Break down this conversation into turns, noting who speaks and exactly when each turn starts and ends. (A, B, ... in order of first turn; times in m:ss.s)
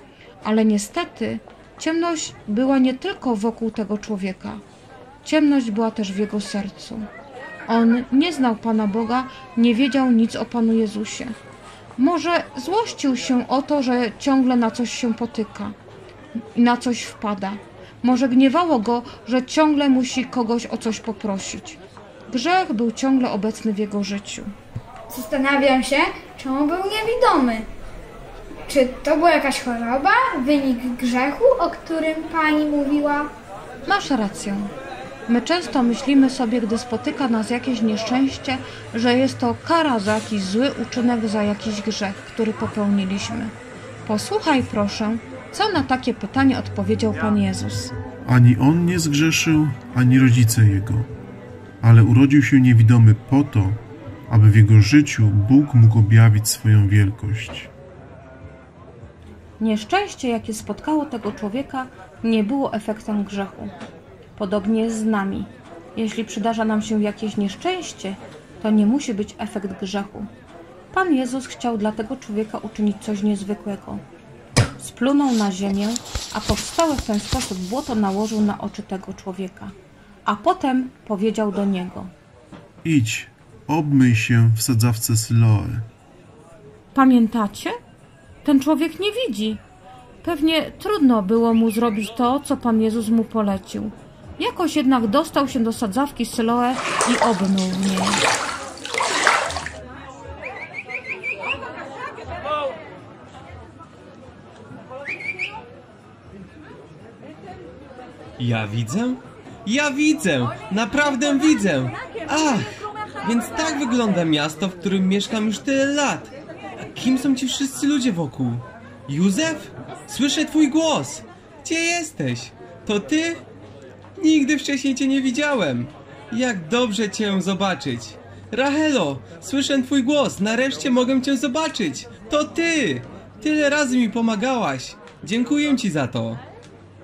0:00.4-0:04.6 A
0:05.2-0:07.1 A
0:07.7-0:11.4 A
0:12.0-0:15.8 A
0:16.6-0:24.5 A
0:25.1-0:27.7 B
0:28.7-0:33.3 B
0:33.9-0:34.7 A
0:35.3-0:43.5 A
0:44.0-0:47.9 A
0:48.2-0:51.1 C
0:51.8-0:57.7 C
0:59.6-1:03.7 A
1:04.4-1:10.3 A
1:10.9-1:14.0 A
1:14.8-1:19.7 A
1:20.3-1:22.1 A
1:22.8-1:25.9 C
1:26.9-1:27.7 A
1:28.4-1:29.6 A
1:30.2-1:38.2 A
1:48.4-1:52.7 D
1:53.2-1:56.3 D
1:56.9-2:03.4 D
2:04.2-2:16.4 D